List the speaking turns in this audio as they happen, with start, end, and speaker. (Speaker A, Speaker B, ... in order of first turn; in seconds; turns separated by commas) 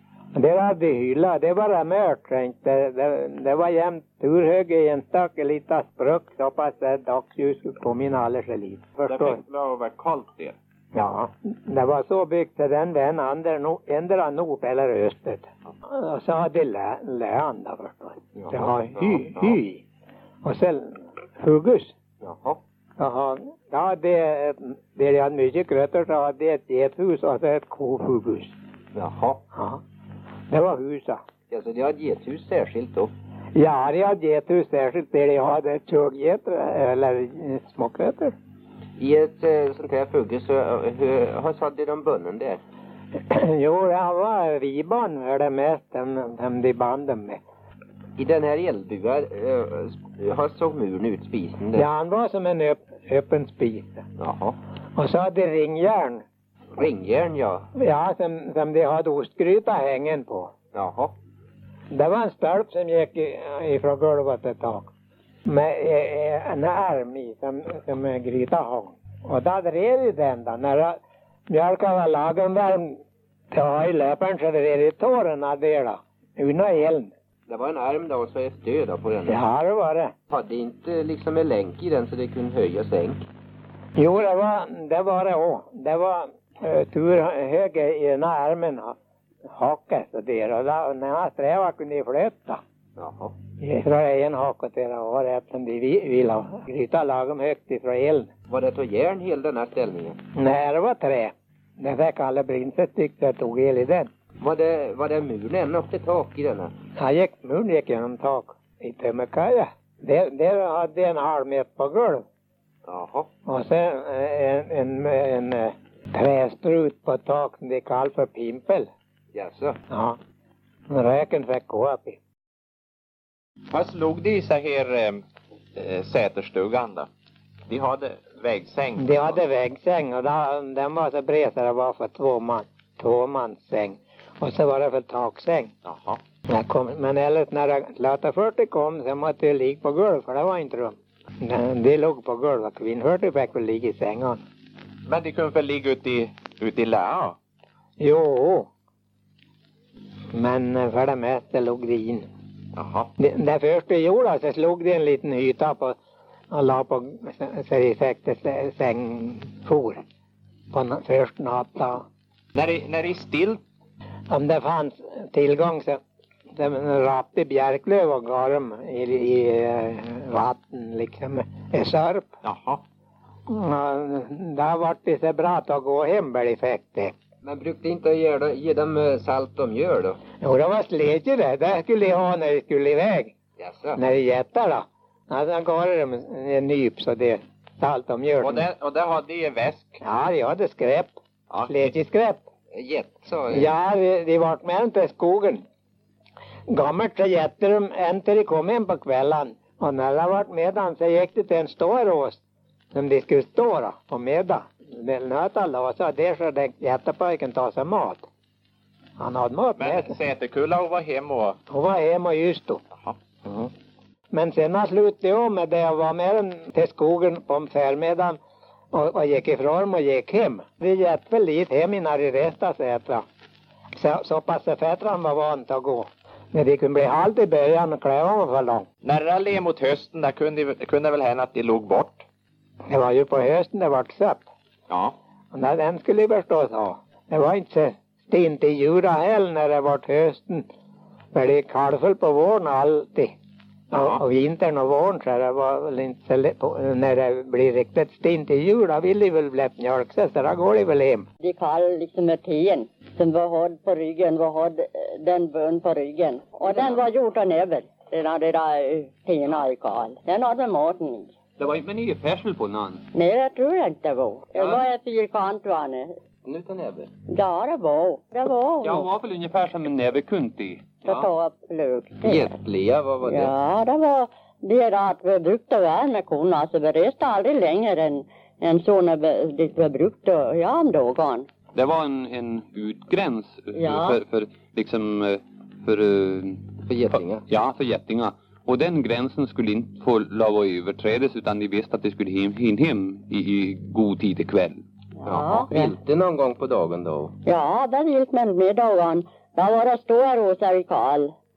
Speaker A: 0.3-9.4, Speaker B: 9.1-10.6, Speaker A: 10.9-19.8, Speaker C: 18.4-18.7, Speaker A: 20.4-21.9, Speaker C: 22.2-22.6, Speaker A: 23.0-28.5, Speaker C: 28.9-29.4, Speaker A: 29.5-29.8, Speaker A: 30.5-31.2, Speaker C: 31.5-33.1, Speaker A: 33.5-38.3, Speaker C: 39.0-42.6, Speaker A: 43.3-47.4, Speaker C: 48.2-51.8, Speaker A: 51.7-54.0, Speaker C: 54.2-54.6, Speaker A: 55.0-56.2, Speaker C: 56.7-57.6, Speaker A: 57.8-60.5, Speaker C: 60.7-61.1, Speaker A: 61.9-64.9, Speaker A: 65.5-73.0, Speaker A: 73.5-77.1, Speaker C: 77.5-79.4, Speaker A: 79.3-80.1, Speaker C: 80.3-83.2, Speaker A: 84.0-89.0, Speaker A: 89.5-92.6, Speaker C: 93.0-93.3, Speaker A: 93.6-98.3, Speaker C: 98.5-100.2, Speaker A: 100.3-104.1, Speaker C: 104.4-106.7, Speaker A: 107.0-112.2, Speaker C: 112.8-113.3, Speaker A: 113.5-118.9, Speaker C: 119.3-119.8, Speaker A: 119.9-120.2, Speaker A: 120.9-122.2, Speaker B: 123.7-125.2, Speaker B: 125.8-127.1, Speaker B: 127.7-129.3, Speaker A: 128.9-135.7, Speaker B: 135.8-136.2, Speaker A: 136.5-144.4, Speaker B: 145.1-147.4, Speaker A: 148.0-148.7, Speaker A: 150.3-152.3, Speaker B: 152.8-153.1, Speaker A: 153.2-156.0, Speaker A: 156.5-160.0, Speaker A: 160.7-162.0, Speaker B: 162.6-163.6, Speaker A: 164.3-166.0, Speaker A: 166.5-172.3, Speaker B: 172.4-172.8, Speaker A: 173.5-177.1, Speaker C: 177.4-180.2, Speaker A: 180.4-183.3, Speaker C: 183.6-184.0, Speaker A: 184.0-188.7, Speaker B: 188.4-190.0, Speaker A: 190.0-192.4, Speaker B: 191.5-191.8, Speaker C: 192.7-193.7, Speaker A: 193.5-195.6, Speaker A: 196.7-202.4, Speaker A: 202.9-208.2, Speaker A: 209.2-210.2, Speaker B: 209.8-211.6, Speaker A: 211.7-212.8, Speaker A: 213.4-213.7, Speaker A: 214.3-218.4, Speaker A: 218.9-223.2, Speaker A: 223.9-228.8, Speaker B: 229.0-232.2, Speaker A: 232.9-234.4, Speaker B: 234.9-235.1, Speaker A: 235.5-240.7, Speaker A: 241.3-243.3, Speaker A: 243.9-251.2, Speaker D: 251.4-261.3, Speaker E: 261.6-263.0, Speaker D: 263.1-266.1, Speaker E: 264.5-264.8, Speaker C: 266.4-267.1, Speaker D: 267.3-269.1, Speaker E: 268.8-271.3, Speaker D: 271.0-272.6, Speaker C: 272.2-273.5, Speaker D: 273.2-281.5, Speaker E: 281.7-294.8, Speaker D: 283.7-284.2, Speaker C: 286.9-287.4, Speaker D: 295.2-295.9, Speaker C: 295.2-297.3, Speaker D: 297.4-301.3